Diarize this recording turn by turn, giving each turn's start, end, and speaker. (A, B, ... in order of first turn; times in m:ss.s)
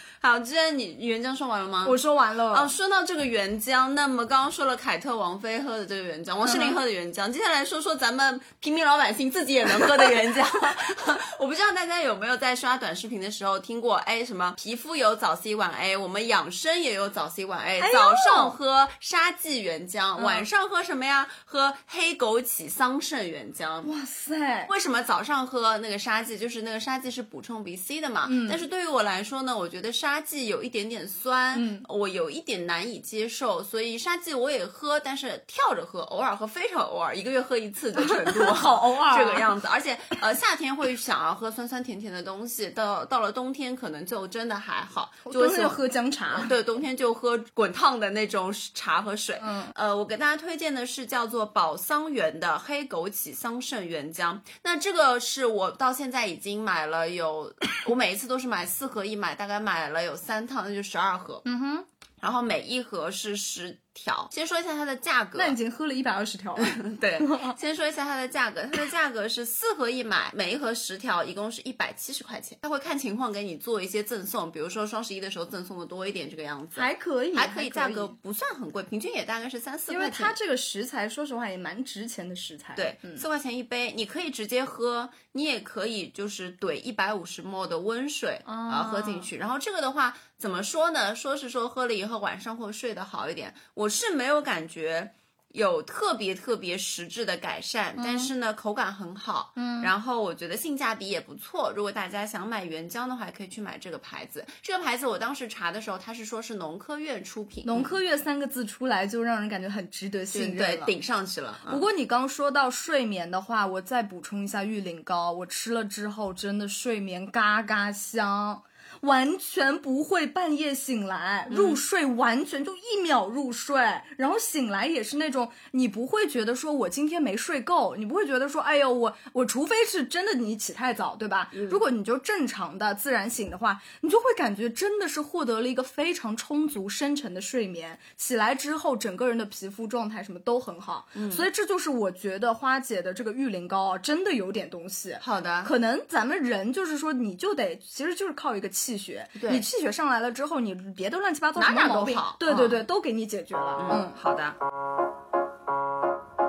0:00.2-0:23.9 A
0:01.8-0:02.7 B
0:06.4-0:06.8 B
0:17.8-0:18.6 B
0:20.2-0:20.5 B
0:23.8-0:24.7 B
0:24.7-1:01.4 A
0:28.2-0:28.6 B
0:31.5-0:31.8 B
0:38.0-0:39.5 B
0:45.2-0:46.5 B
0:49.4-0:49.7 B
1:01.4-1:01.9 B
1:02.2-1:05.6 A
1:05.4-1:07.5 B
1:06.6-1:20.4 A
1:16.7-1:18.1 B
1:19.9-1:23.2 B
1:22.8-1:47.9 A
1:28.4-1:29.3 B
1:38.0-1:38.3 B
1:39.6-1:39.9 B
1:47.6-1:50.9 B
1:50.3-1:51.8 A
1:51.6-2:34.2 B
2:01.5-2:01.8 A
2:21.1-2:21.4 A
2:25.2-2:25.7 A
2:29.4-2:29.6 A
2:31.6-2:32.8 A
2:33.8-2:34.6 A